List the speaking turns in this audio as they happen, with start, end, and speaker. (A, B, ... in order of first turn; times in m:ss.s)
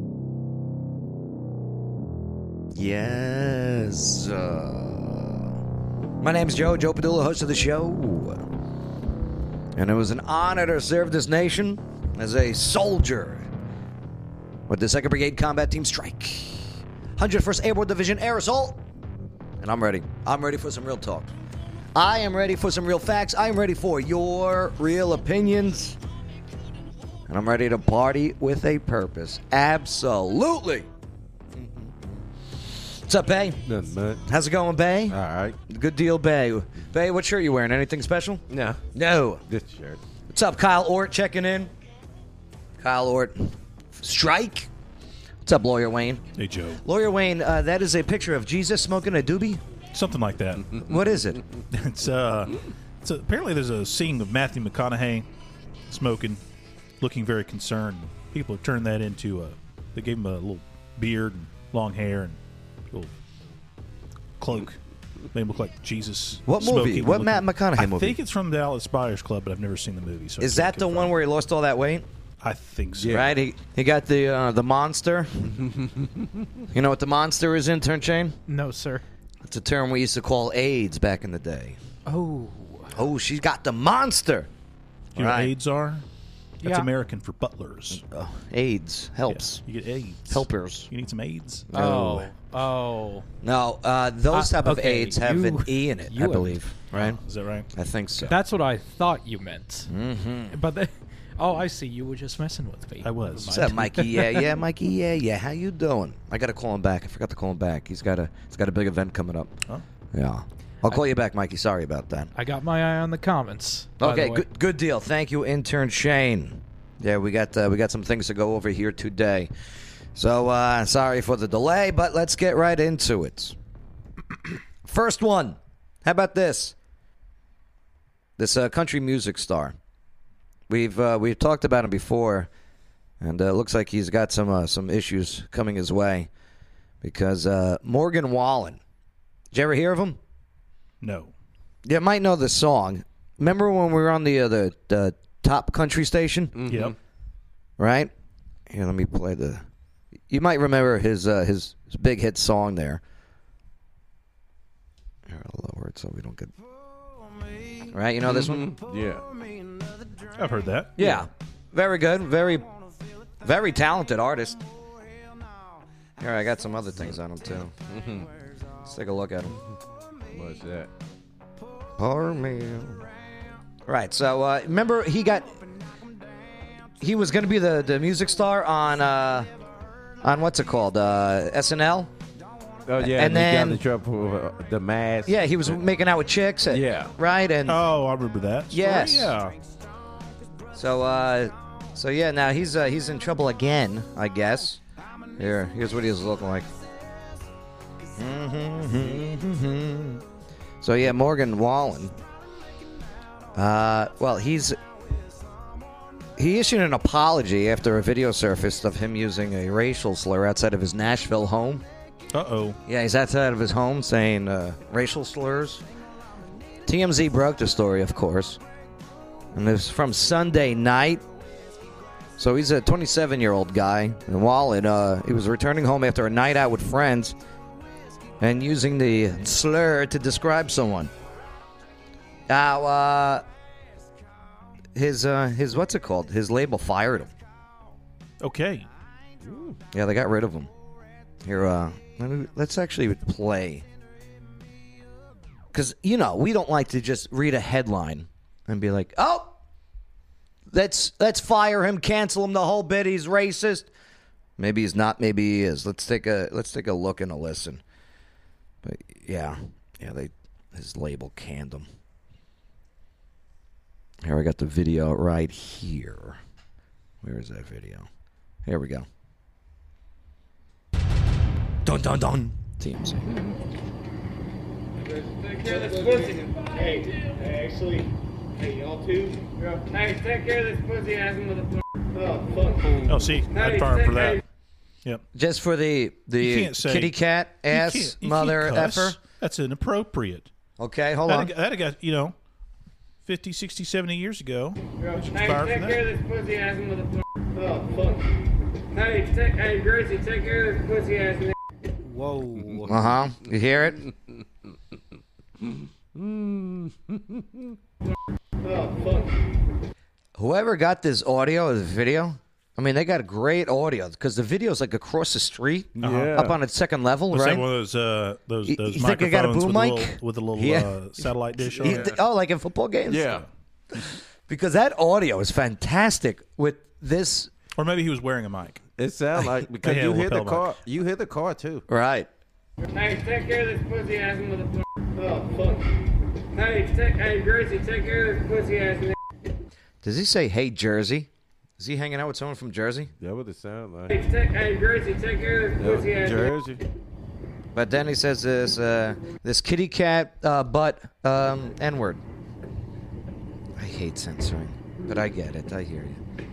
0:02.7-0:05.5 A
0:06.2-0:08.4 A
0:09.8-0:13.5 A
0:14.7-0:18.8 A
0:19.6-0:21.3 A
0:21.9-0:26.0 A
0:27.3-0:30.9 A
0:31.6-0:32.0 A
0:32.7-0:33.6 A
0:33.6-0:34.2 B
0:34.2-0:35.2 A
0:35.1-0:35.6 B
0:35.7-0:38.4 A
0:38.5-0:38.8 B
0:38.9-0:39.4 A
0:39.5-0:40.0 B
0:40.3-0:41.7 A
0:42.8-0:44.7 A
0:45.4-0:46.2 A
0:46.4-0:46.8 C
0:46.8-0:49.6 A
0:49.9-0:50.7 C
0:50.8-0:51.4 A
0:51.7-0:55.3 C
0:55.9-0:56.4 C
0:57.0-1:02.4 C
1:04.4-1:04.8 C
1:05.3-1:11.1 C
1:06.4-1:08.2 A
1:10.4-1:12.0 A
1:12.4-1:13.2 C
1:13.0-1:13.3 B
1:13.1-1:15.4 A
1:15.5-1:16.4 B
1:16.7-1:18.4 A
1:18.5-1:19.0 D
1:19.4-1:21.8 A
1:22.0-1:23.0 D
1:22.9-1:24.5 A
1:25.1-1:25.5 A
1:25.2-1:26.0 C
1:26.6-1:26.9 D
1:26.6-1:28.0 C
1:27.9-1:29.6 A
1:29.3-1:31.7 C
1:30.3-1:30.9 A
1:31.7-1:32.3 A
1:31.7-1:33.3 D
1:33.4-1:37.2 A
1:34.3-1:36.6 D
1:37.0-1:37.7 C
1:37.7-1:38.4 A
1:38.2-1:39.9 D
1:39.9-1:40.6 A
1:40.5-1:44.5 D
1:43.0-1:43.7 C
1:43.5-1:49.6 A
1:50.1-1:52.3 A
1:52.3-1:54.4 D
1:54.0-1:59.5 A
2:00.1-2:03.6 A
2:04.8-2:06.7 A
2:08.4-2:09.8 A
2:10.7-2:12.5 A
2:13.2-2:16.3 A
2:17.0-2:18.8 A
2:19.5-2:20.2 A
2:21.0-2:21.3 C
2:21.8-2:26.6 A
2:26.6-2:26.9 B
2:26.7-2:27.0 C
2:27.8-2:28.1 A
2:28.7-2:29.6 A
2:30.3-2:33.0 A
2:35.2-2:36.5 A
2:37.8-2:38.7 A
2:38.2-2:39.3 B
2:40.4-2:41.2 C
2:41.0-2:42.7 A
2:43.4-2:44.6 A
2:46.2-2:47.7 A
2:47.9-2:48.3 B
2:48.8-2:49.6 A
2:50.3-2:50.9 B
2:52.0-2:53.1 A
2:53.8-2:55.6 A
2:57.0-2:59.5 A
3:00.2-3:02.1 A
3:02.8-3:05.8 B
3:03.0-3:03.8 A
3:05.2-3:07.8 A
3:06.7-3:07.1 B
3:07.7-3:09.6 C
3:08.7-3:09.3 A
3:10.7-3:14.8 A
3:15.4-3:16.7 A
3:18.2-3:20.2 A
3:20.8-3:22.2 A
3:23.5-3:24.8 A
3:26.4-3:31.8 A
3:32.3-3:32.8 C
3:32.9-3:35.8 A
3:36.8-3:38.6 A
3:39.5-3:41.2 A
3:42.4-3:47.4 A
3:48.4-3:51.1 A
3:52.5-3:53.4 A
3:54.9-3:57.3 A
3:58.4-3:58.9 C
3:59.4-3:59.8 B
3:59.9-4:00.7 A
4:01.4-4:03.8 A
4:05.7-4:09.6 A
4:10.7-4:13.9 A
4:14.6-4:17.8 A
4:18.8-4:21.9 A
4:24.2-4:26.4 A
4:27.2-4:28.1 A
4:28.6-4:29.1 A
4:31.8-4:33.4 A
4:35.4-4:37.6 E
4:39.9-4:42.7 E
4:42.7-4:43.2 D
4:43.0-4:44.4 C
4:45.3-4:49.2 A
4:46.4-4:47.1 C
4:47.7-4:50.5 C
4:50.8-4:51.5 A
4:51.3-4:52.3 C
4:53.2-4:56.2 C
4:55.8-4:58.3 E
4:58.9-5:01.5 E
5:02.0-5:03.1 D
5:02.8-5:04.0 A
5:05.6-5:07.7 B
5:08.7-5:09.2 E
5:10.4-5:17.6 A
5:16.0-5:16.6 B
5:16.0-5:16.3 C
5:17.3-5:22.1 C
5:18.6-5:20.9 A
5:21.6-5:22.2 B
5:21.8-5:23.4 A
5:23.1-5:23.5 B
5:23.9-5:27.5 A
5:27.8-5:28.8 C
5:29.0-5:31.8 B
5:29.8-5:30.7 C
5:31.9-5:32.3 A
5:32.9-5:35.9 E
5:36.5-5:39.1 E
5:40.0-5:43.1 A
5:43.2-5:44.3 B
5:44.1-5:46.1 E
5:45.7-5:46.8 B
5:47.7-5:52.2 A
5:53.8-5:56.2 A